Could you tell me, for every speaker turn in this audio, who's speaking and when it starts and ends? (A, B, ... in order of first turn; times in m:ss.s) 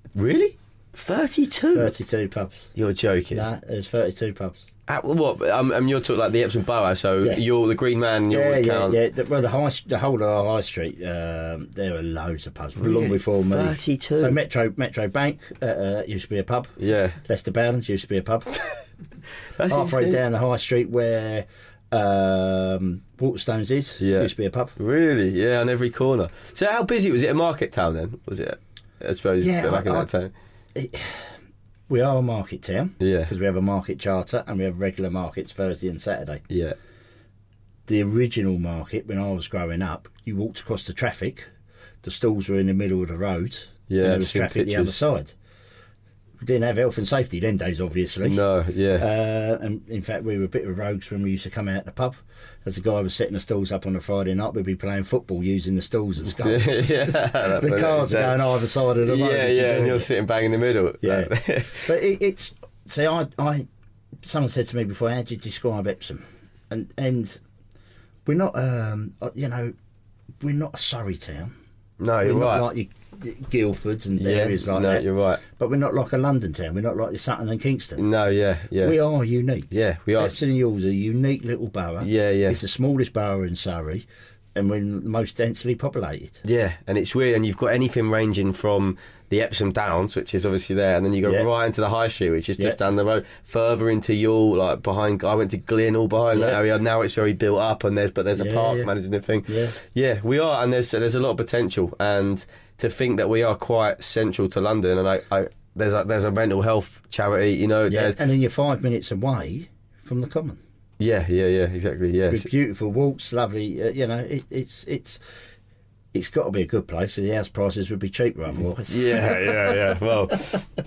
0:00.2-0:01.9 A
0:01.7-0:02.7 B
0:02.7-0:03.4 A
0:03.3-0:04.7 B
0:04.9-0:09.0 A
0:08.3-0:18.6 B
0:12.8-0:14.4 A
0:16.8-0:17.2 A
0:19.5-0:20.2 A
0:19.7-0:24.7 B
0:24.0-0:30.3 A
0:29.4-0:30.1 B
0:30.7-0:31.3 B
0:31.9-0:36.4 B
0:33.0-0:33.3 A
0:36.5-0:36.8 A
0:37.9-0:41.4 B
0:42.0-0:45.3 B
0:43.9-0:45.0 A
0:46.4-0:48.4 B
0:48.2-0:49.0 A
0:49.0-1:00.1 B
0:56.4-1:01.9 A
1:01.0-1:03.6 B
1:04.2-1:07.4 B
1:08.2-1:09.7 B
1:10.4-1:11.5 B
1:12.0-1:12.7 A
1:12.2-1:18.0 B
1:14.2-1:15.4 A
1:18.0-1:18.9 A
1:18.8-1:26.4 B
1:19.7-1:20.4 A
1:22.0-1:22.6 A
1:26.4-1:48.2 A
1:31.2-1:31.5 B
1:36.3-1:36.6 B
1:38.3-1:38.9 B
1:39.5-1:39.7 B
1:47.9-1:50.6 B
1:51.0-1:52.5 A
1:52.3-1:55.2 B
1:56.1-2:00.0 B
1:58.9-2:00.6 A